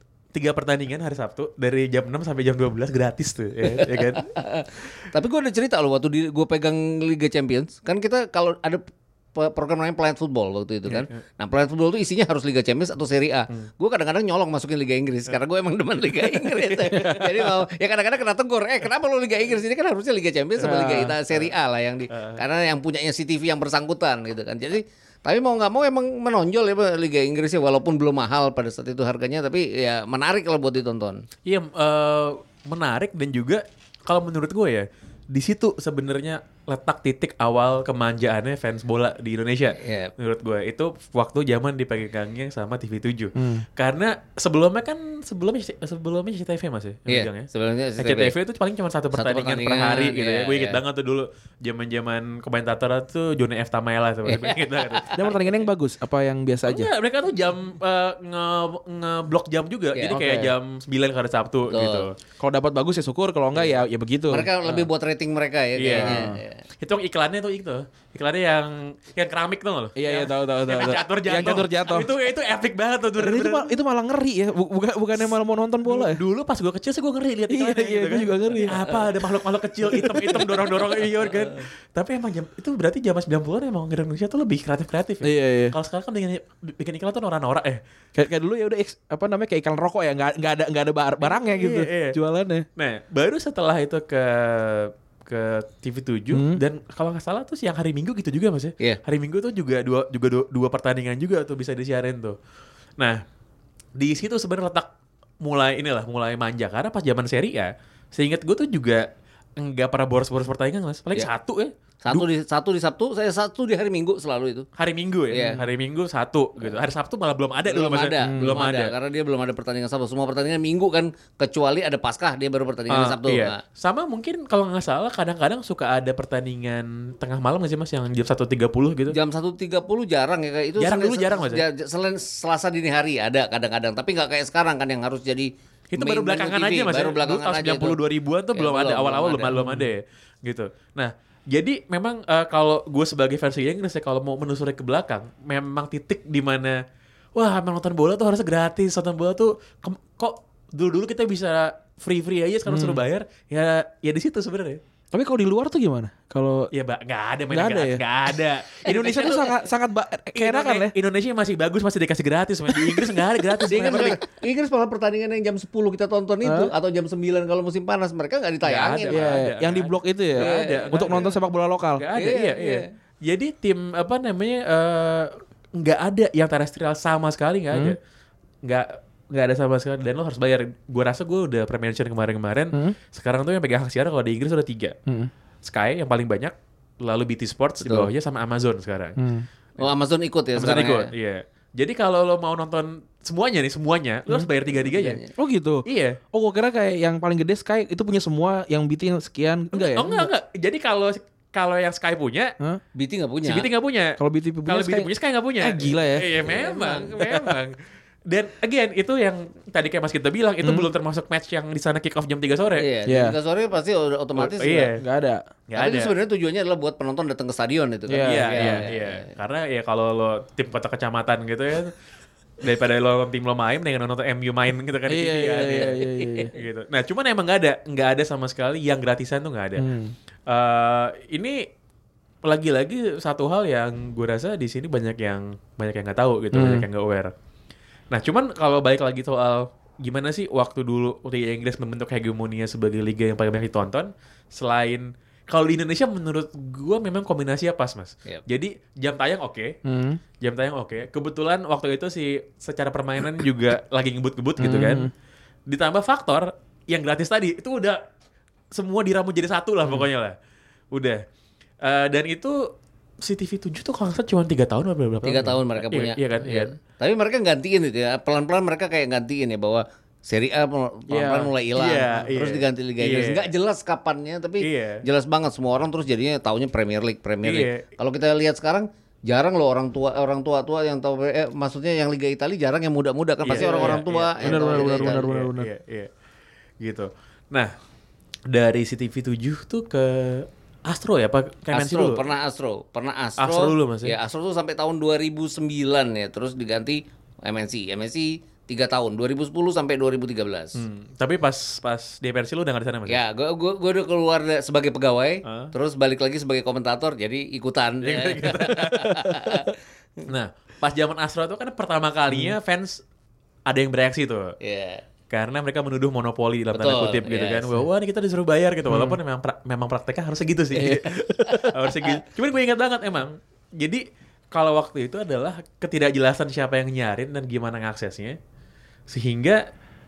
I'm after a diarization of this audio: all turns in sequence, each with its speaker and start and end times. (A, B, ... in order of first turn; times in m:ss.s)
0:00.3-0:04.3 A
0:03.8-0:08.8 B
0:09.3-0:31.2 B
0:10.9-0:11.1 A
0:16.9-0:17.2 C
0:20.6-0:21.1 C
0:20.6-0:21.5 A
0:22.1-0:22.4 A
0:31.4-0:55.3 A
0:39.8-0:40.1 B
0:43.4-0:43.6 C
0:47.1-0:48.3 B
0:49.1-0:50.8 B
0:54.2-0:55.1 B
0:55.2-0:56.9 C
0:56.6-1:02.1 A
1:00.1-1:00.5 C
1:01.7-1:02.1 B
1:02.4-1:04.8 C
1:03.5-1:03.8 A
1:04.3-1:06.6 B
1:05.8-1:06.3 A
1:06.0-1:06.4 C
1:06.8-1:13.7 A
1:10.0-1:12.1 C
1:13.2-1:16.2 C
1:15.8-1:27.8 A
1:17.5-1:18.9 C
1:19.9-1:20.5 C
1:25.2-1:25.7 C
1:28.2-1:32.6 C
1:31.2-1:32.2 A
1:32.8-1:42.4 A
1:36.3-1:36.6 C
1:44.0-1:44.9 A
1:45.4-1:49.0 A
1:49.6-1:52.2 A
1:52.0-1:54.6 B
1:54.8-1:58.9 A
1:55.3-1:55.6 B
1:57.7-2:03.6 B
1:58.2-1:58.6 C
2:02.9-2:09.2 A
2:09.1-2:18.0 B
2:10.8-2:11.6 A
2:15.9-2:26.8 A
2:18.5-2:19.6 B
2:19.5-2:19.9 C
2:27.4-2:34.8 A
2:32.7-2:33.0 C
2:35.1-2:36.7 C
2:36.7-2:39.5 A
2:37.5-2:38.0 C
2:38.8-2:40.9 C
2:40.3-2:44.2 A
2:43.7-2:49.4 B
2:46.4-2:46.7 C
2:48.6-2:51.3 A
2:49.1-2:52.0 C
2:50.4-2:51.2 B
2:52.0-2:58.0 A
2:52.1-2:52.8 B
2:58.6-3:04.9 A
3:05.6-3:09.2 A
3:07.8-3:08.1 B
3:09.2-3:09.4 C
3:09.8-3:11.1 B
3:10.6-3:15.2 A
3:14.8-3:15.3 B
3:15.4-3:20.3 C
3:15.8-3:16.2 A
3:19.7-3:22.5 A
3:23.0-3:23.7 B
3:23.4-3:32.8 A
3:24.2-3:26.4 C
3:26.4-3:27.1 B
3:27.2-3:27.5 C
3:30.6-3:30.9 C
3:32.8-3:34.9 B
3:33.1-3:33.4 C
3:34.4-3:35.0 A
3:35.0-3:35.4 C
3:35.7-3:36.1 A
3:35.8-3:39.2 B
3:38.1-3:38.8 C
3:38.2-3:41.9 A
3:42.6-3:46.0 A
3:45.1-3:46.5 C
3:45.7-3:46.5 B
3:46.5-3:49.9 A
3:49.8-3:50.1 C
3:50.5-3:51.6 A
3:52.4-3:57.3 A
3:56.5-3:56.8 C
3:58.1-4:09.7 A
4:09.8-4:10.2 C
4:10.4-4:15.1 A
4:14.6-4:15.1 C
4:15.7-4:18.0 A
4:18.7-4:20.3 A
4:20.9-4:21.2 A
4:21.8-4:22.7 A
4:23.2-4:26.7 A
4:25.2-4:45.3 B
4:31.1-4:31.5 C
4:31.7-4:33.5 A
4:34.6-4:35.0 A
4:37.4-4:37.9 A
4:43.4-4:46.1 A
4:43.6-4:45.7 C
4:46.8-4:47.7 A
4:48.5-4:52.2 A
4:51.7-5:00.8 B
4:53.4-4:54.1 A
5:00.8-5:03.2 A
5:03.1-5:09.7 B
5:05.4-5:05.7 A
5:08.0-5:09.5 A
5:10.2-5:13.0 A
5:12.3-5:12.5 C
5:13.7-5:14.6 A
5:14.6-5:15.0 B
5:15.3-5:28.4 A
5:16.7-5:17.8 B
5:18.9-5:19.2 C
5:20.8-5:21.8 C
5:29.1-5:29.6 A